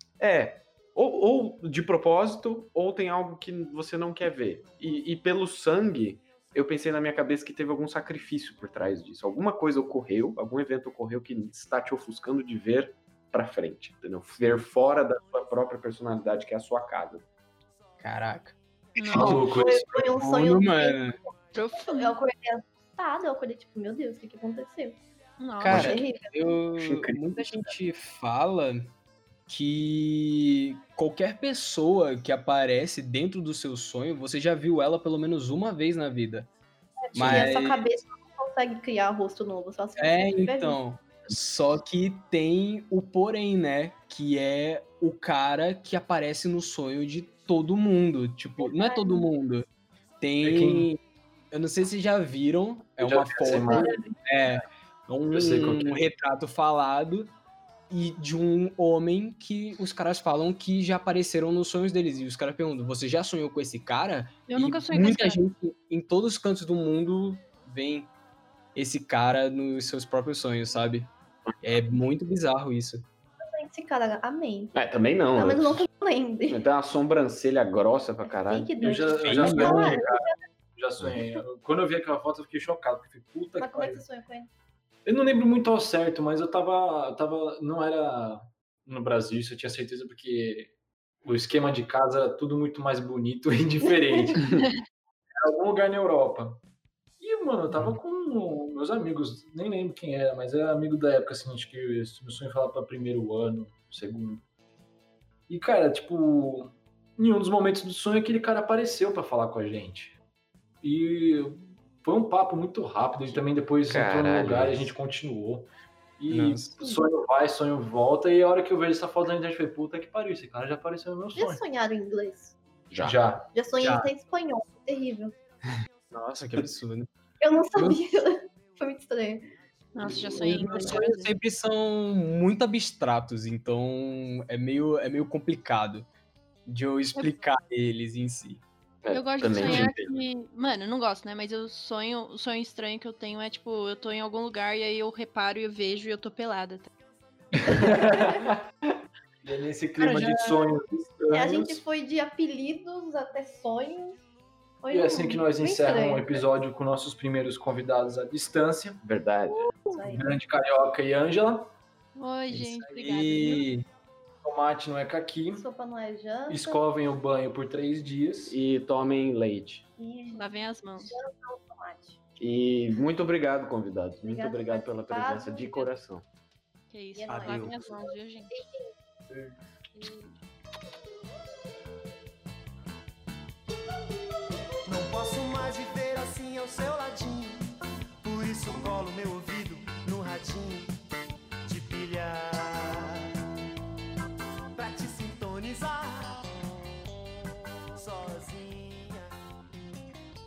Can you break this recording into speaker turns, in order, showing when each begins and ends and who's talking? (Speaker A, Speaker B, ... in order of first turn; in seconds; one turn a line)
Speaker A: 0.2-17.2
Speaker B: 18.0-21.2
Speaker C: 19.0-19.4
Speaker D: 19.1-20.2
Speaker E: 19.3-25.0
Speaker C: 21.5-22.1
Speaker C: 25.4-26.0
Speaker B: 25.6-28.9
Speaker E: 25.7-26.6
Speaker A: 26.8-27.7
Speaker B: 29.5-36.5
Speaker C: 37.1-37.5
Speaker B: 37.1-37.9
Speaker E: 37.1-40.8
Speaker B: 40.0-49.6
Speaker E: 48.6-49.3
Speaker B: 50.2-51.0
Speaker D: 50.4-50.9
Speaker B: 51.5-57.3
Speaker D: 53.0-54.0
Speaker E: 53.5-54.1
Speaker D: 55.3-55.9
Speaker B: 57.9-68.1
Speaker C: 64.5-65.4
Speaker B: 68.7-73.0
Speaker E: 73.4-74.7
Speaker A: 74.7-75.8
Speaker E: 75.3-76.6
Speaker A: 76.5-78.7
Speaker E: 78.4-80.4
Speaker D: 78.8-79.9
Speaker B: 79.2-80.0
Speaker A: 79.2-80.3
Speaker D: 80.7-84.0
Speaker E: 83.6-84.5
Speaker D: 85.0-94.7
Speaker D: 95.4-96.6
Speaker D: 97.2-104.4
Speaker D: 105.5-110.2
Speaker D: 110.8-121.6
Speaker A: 113.3-114.9
Speaker B: 116.3-116.8
Speaker E: 116.8-117.1
Speaker E: 121.3-122.5
Speaker A: 122.9-123.2
Speaker D: 123.0-123.5
Speaker E: 123.5-125.3
Speaker B: 123.8-124.1
Speaker B: 126.1-127.1
Speaker E: 127.4-129.5
Speaker B: 127.7-128.0
Speaker C: 129.9-131.3
Speaker D: 130.0-130.9
Speaker B: 130.3-136.1
Speaker E: 130.4-130.9
Speaker B: 136.7-138.6
Speaker A: 139.0-140.1
Speaker C: 139.1-146.9
Speaker D: 147.6-148.5
Speaker E: 147.7-148.2
Speaker D: 149.4-151.8
Speaker B: 150.0-150.8
Speaker E: 151.3-154.2
Speaker E: 154.8-156.4
Speaker D: 154.9-159.0
Speaker A: 159.0-159.7
Speaker E: 159.6-160.3
Speaker D: 160.0-161.7
Speaker C: 162.1-163.6
Speaker B: 162.5-163.8
Speaker D: 164.4-165.6
Speaker E: 165.5-166.8
Speaker D: 166.5-168.6
Speaker A: 168.5-169.8
Speaker E: 170.0-172.2
Speaker C: 170.3-171.2
Speaker A: 172.4-176.2
Speaker E: 174.2-175.9
Speaker C: 176.9-178.5
Speaker E: 177.1-178.9
Speaker B: 177.3-177.8
Speaker E: 179.9-180.3
Speaker F: 184.8-187.6
Speaker F: 188.2-190.9
Speaker F: 191.7-193.2
Speaker F: 194.8-196.4
Speaker F: 197.9-199.3